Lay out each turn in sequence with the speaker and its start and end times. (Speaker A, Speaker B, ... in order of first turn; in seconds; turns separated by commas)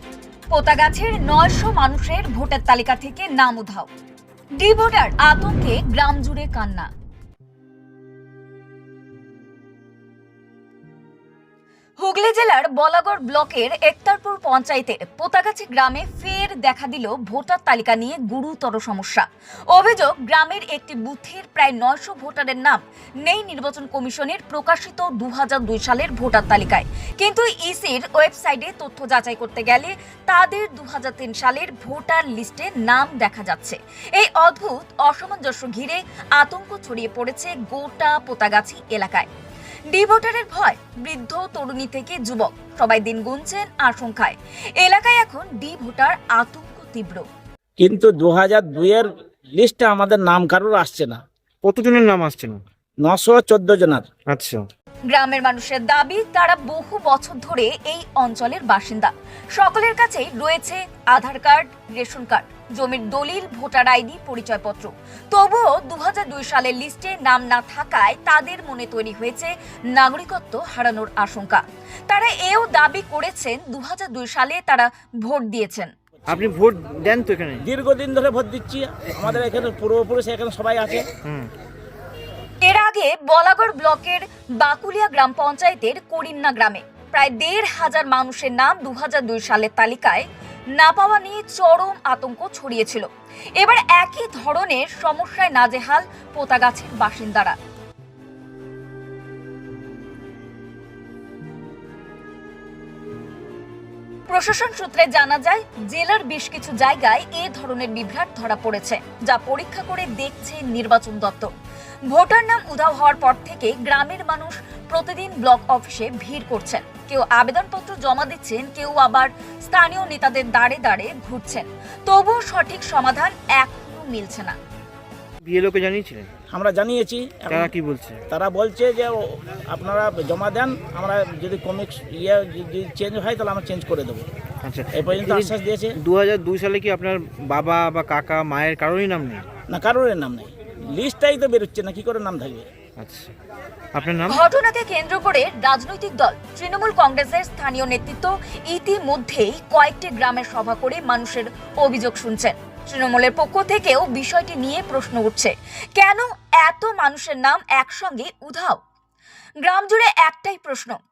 Speaker A: 0.5-3.9, Speaker A: 4.6-6.9, Speaker A: 12.0-39.3, Speaker A: 39.9-47.2, Speaker B: 47.8-51.2, Speaker C: 51.6-52.6, Speaker B: 53.0-54.1, Speaker C: 54.3-54.6, Speaker A: 55.1-75.9, Speaker C: 76.3-77.6, Speaker B: 77.6-81.1, Speaker C: 81.2-81.5, Speaker A: 82.6-97.5, Speaker A: 104.3-111.5, Speaker A: 112.1-124.6, Speaker C: 125.4-126.3, Speaker B: 126.5-127.7, Speaker C: 127.5-128.2, Speaker B: 128.3-134.3, Speaker C: 134.6-139.4, Speaker B: 134.9-136.0, Speaker B: 139.7-142.7, Speaker C: 143.0-143.3, Speaker C: 143.9-144.4, Speaker A: 144.3-158.8, Speaker A: 159.6-161.0